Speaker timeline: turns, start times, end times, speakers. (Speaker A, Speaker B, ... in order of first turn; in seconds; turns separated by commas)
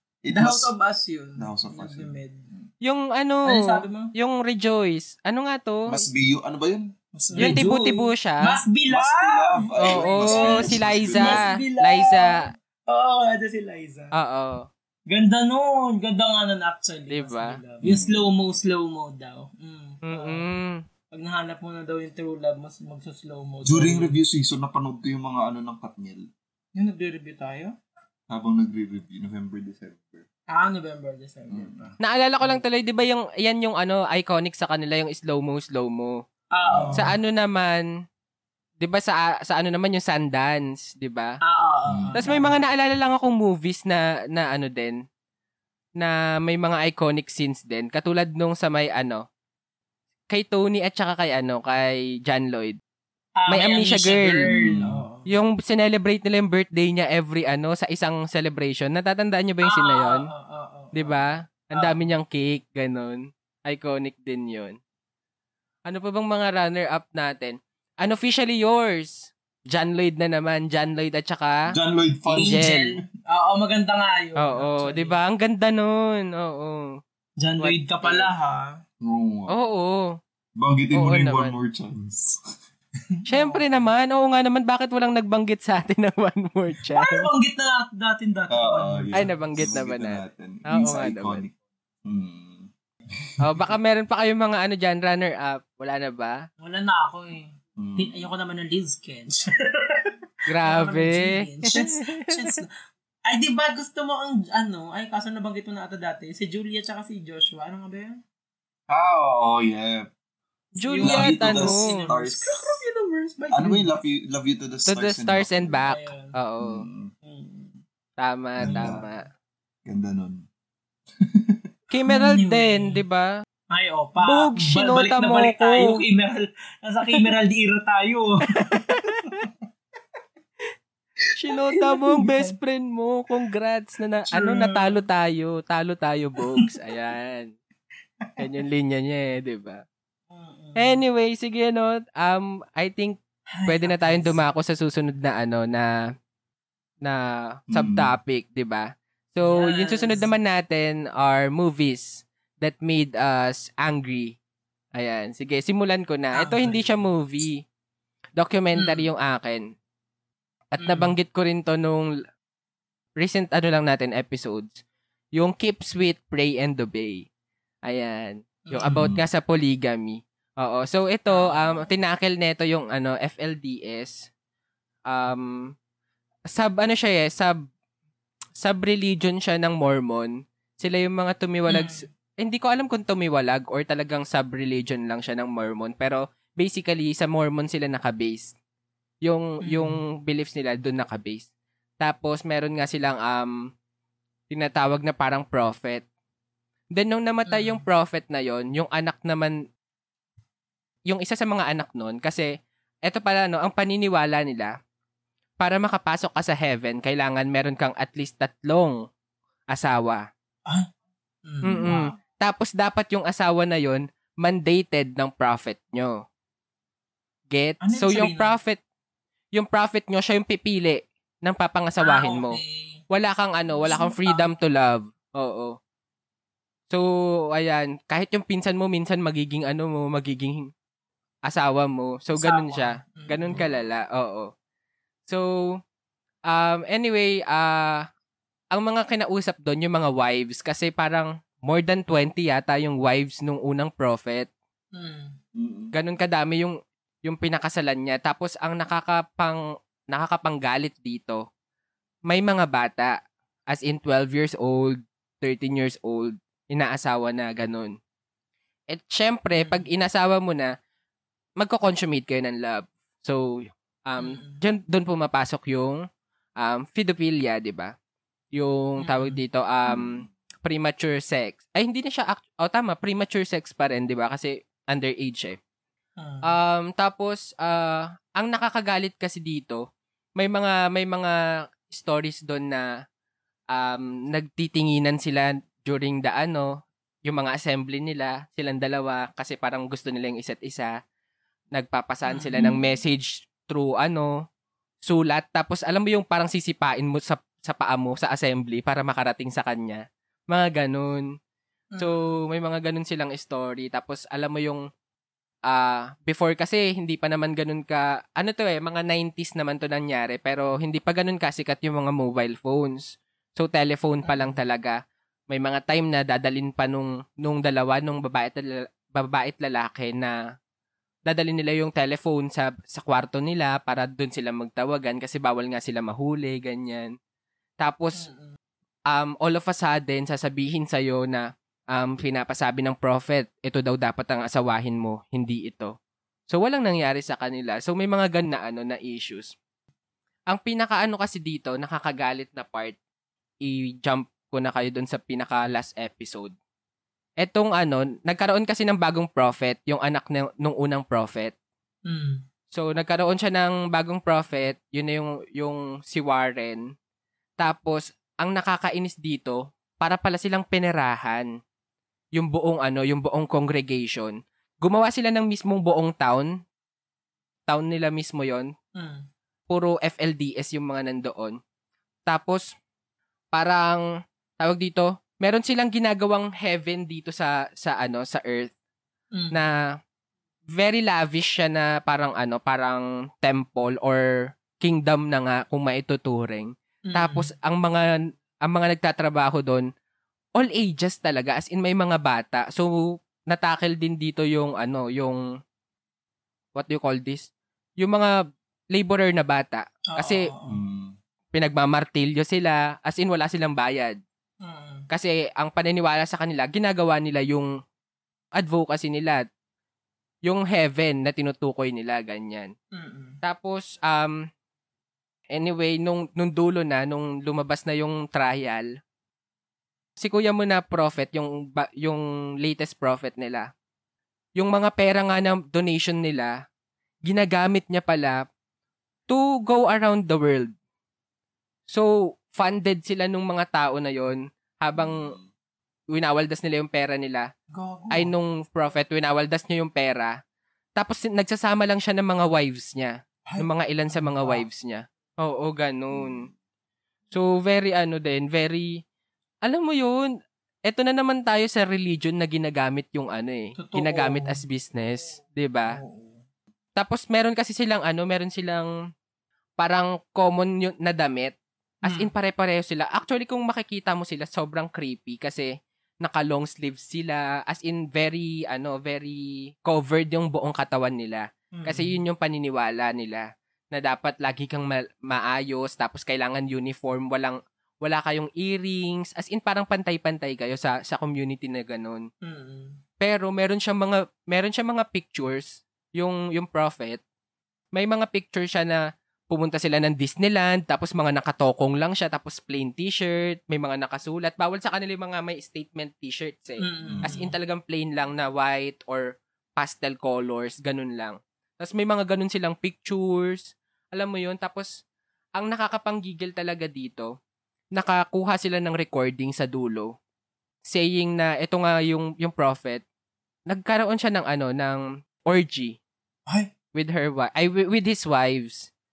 Speaker A: 0.2-0.7, Speaker B: 0.3-2.5, Speaker A: 1.4-2.7, Speaker C: 2.8-6.0, Speaker B: 3.5-4.1, Speaker A: 5.9-7.6, Speaker B: 7.2-14.2, Speaker C: 7.4-8.6, Speaker A: 8.9-11.5, Speaker C: 9.8-12.4, Speaker C: 14.1-14.7, Speaker B: 15.1-20.5, Speaker C: 17.1-17.6, Speaker A: 17.8-18.3, Speaker C: 20.1-20.8, Speaker B: 21.1-24.2, Speaker A: 23.6-26.3, Speaker B: 26.8-27.8, Speaker A: 28.3-30.3, Speaker B: 30.5-32.6, Speaker A: 31.5-31.9, Speaker C: 32.0-36.2, Speaker B: 36.5-37.1, Speaker A: 36.6-37.1, Speaker C: 37.0-37.9, Speaker C: 38.8-41.4, Speaker B: 41.4-42.6, Speaker A: 41.9-42.2, Speaker C: 42.1-45.0, Speaker C: 46.0-49.2, Speaker C: 50.3-52.8, Speaker B: 53.4-55.3, Speaker C: 53.5-54.6, Speaker A: 54.5-55.0, Speaker C: 55.3-60.2, Speaker B: 59.6-62.0, Speaker C: 60.9-64.8, Speaker C: 65.9-71.7, Speaker A: 71.7-72.7, Speaker B: 72.3-75.2, Speaker C: 72.4-72.9, Speaker C: 74.4-77.0, Speaker B: 77.4-78.8, Speaker C: 77.6-78.3, Speaker A: 79.0-79.5, Speaker C: 79.5-80.1, Speaker A: 80.6-82.4, Speaker C: 80.9-81.5, Speaker B: 83.1-83.9, Speaker C: 83.3-87.3, Speaker B: 86.9-89.5, Speaker A: 88.5-91.5, Speaker C: 89.1-91.5, Speaker A: 92.1-92.7, Speaker A: 93.2-93.7, Speaker C: 93.4-96.4, Speaker B: 96.6-102.7, Speaker A: 97.8-98.3, Speaker C: 100.5-101.9, Speaker B: 103.3-108.2, Speaker A: 108.9-110.1, Speaker C: 110.8-112.0, Speaker B: 110.8-113.9, Speaker A: 111.0-112.8, Speaker A: 113.5-115.9, Speaker C: 114.9-116.8, Speaker B: 115.9-116.3, Speaker A: 116.6-117.1, Speaker B: 117.2-117.8, Speaker C: 118.2-119.2, Speaker A: 118.6-119.0, Speaker B: 118.6-119.1, Speaker A: 119.9-120.5, Speaker A: 121.2-121.7, Speaker C: 121.9-123.3, Speaker B: 122.0-123.0, Speaker B: 123.7-129.5, Speaker C: 124.2-126.0, Speaker C: 128.9-129.3, Speaker C: 131.4-137.5, Speaker B: 131.5-132.6, Speaker B: 134.3-134.9, Speaker C: 138.4-139.8, Speaker B: 140.3-141.0, Speaker C: 140.8-145.9, Speaker B: 143.5-144.4, Speaker C: 147.0-154.4, Speaker A: 147.7-148.1, Speaker B: 149.4-150.3, Speaker C: 154.9-157.6, Speaker B: 156.3-156.8, Speaker C: 158.4-159.7, Speaker B: 158.8-159.1, Speaker C: 160.7-162.1, Speaker B: 160.8-161.1, Speaker C: 163.2-164.8, Speaker C: 165.4-167.3, Speaker C: 167.8-174.3, Speaker B: 168.7-169.1, Speaker A: 168.9-169.2, Speaker B: 171.3-171.9, Speaker C: 175.1-175.7, Speaker C: 176.5-177.6, Speaker C: 178.6-188.6, Speaker B: 181.7-182.0, Speaker C: 189.2-191.5, Speaker B: 189.6-190.0, Speaker C: 192.0-193.6, Speaker C: 194.5-196.1, Speaker C: 196.9-199.6, Speaker B: 197.5-197.8, Speaker C: 201.1-202.5, Speaker C: 203.1-204.7, Speaker C: 205.6-209.0, Speaker C: 209.7-210.3, Speaker B: 211.5-212.1, Speaker C: 211.6-216.2, Speaker C: 217.5-218.8, Speaker B: 217.8-218.6, Speaker C: 219.5-222.6, Speaker B: 222.0-223.0, Speaker C: 223.1-225.8, Speaker B: 223.8-224.5, Speaker C: 226.9-230.7, Speaker C: 231.5-234.5, Speaker B: 232.3-233.7, Speaker C: 235.3-235.8, Speaker C: 236.5-238.1, Speaker C: 238.7-244.5, Speaker B: 244.9-245.4, Speaker A: 245.6-245.9, Speaker C: 245.9-251.4, Speaker C: 252.3-253.2, Speaker C: 253.7-257.9, Speaker C: 258.9-260.7, Speaker B: 259.6-259.9, Speaker C: 261.6-266.0, Speaker B: 264.2-264.6, Speaker C: 266.6-267.9, Speaker C: 268.5-275.6, Speaker B: 269.0-269.4, Speaker A: 269.9-270.3, Speaker B: 276.2-276.5, Speaker C: 276.4-279.8, Speaker C: 280.4-281.4, Speaker C: 281.9-282.9, Speaker C: 283.7-290.9, Speaker C: 291.7-294.3, Speaker B: 292.3-292.8, Speaker C: 295.1-301.3, Speaker B: 301.9-302.4, Speaker C: 302.0-304.8, Speaker C: 305.7-315.0, Speaker B: 314.2-314.6, Speaker C: 315.5-320.4, Speaker C: 321.3-327.1, Speaker C: 327.8-328.3, Speaker B: 328.1-328.6, Speaker C: 329.1-335.9, Speaker C: 336.5-339.5, Speaker C: 340.5-343.0, Speaker C: 343.6-346.5, Speaker C: 347.4-351.5, Speaker B: 352.1-352.4, Speaker C: 352.7-356.9, Speaker C: 357.6-361.5, Speaker C: 362.4-366.5, Speaker C: 367.7-368.7, Speaker B: 369.0-369.3, Speaker C: 369.7-371.6, Speaker C: 372.3-372.7, Speaker C: 373.5-374.0, Speaker C: 374.6-378.7, Speaker B: 379.3-379.6, Speaker C: 380.7-388.1, Speaker B: 387.1-387.5, Speaker C: 388.6-389.9, Speaker C: 390.6-395.4, Speaker C: 396.8-398.4, Speaker C: 398.9-400.4, Speaker B: 400.1-400.8, Speaker A: 400.7-401.2, Speaker C: 401.5-404.2, Speaker B: 404.6-405.1, Speaker C: 405.1-407.7, Speaker C: 408.6-409.5, Speaker C: 410.4-412.7, Speaker B: 412.9-413.4, Speaker C: 413.4-414.4, Speaker C: 415.5-418.9, Speaker C: 420.2-423.7, Speaker C: 424.6-426.5, Speaker C: 427.2-428.4, Speaker C: 429.3-430.7, Speaker C: 431.9-435.4, Speaker A: 435.0-435.5, Speaker C: 436.1-437.5, Speaker B: 437.7-438.3, Speaker C: 438.1-440.4, Speaker C: 441.0-446.4, Speaker B: 443.5-444.6, Speaker A: 446.1-446.5, Speaker C: 447.3-449.0, Speaker C: 449.6-450.3, Speaker C: 450.9-456.0, Speaker B: 453.8-454.6, Speaker B: 455.9-456.4, Speaker C: 457.0-458.9, Speaker C: 459.8-482.2, Speaker B: 462.1-462.3, Speaker B: 471.7-472.2, Speaker B: 482.4-483.0, Speaker C: 483.2-487.2, Speaker C: 487.9-504.9, Speaker B: 496.8-497.5, Speaker A: 497.1-497.3, Speaker C: 505.6-507.3, Speaker C: 507.9-510.1, Speaker C: 510.9-513.0, Speaker C: 513.7-516.0, Speaker C: 516.9-518.9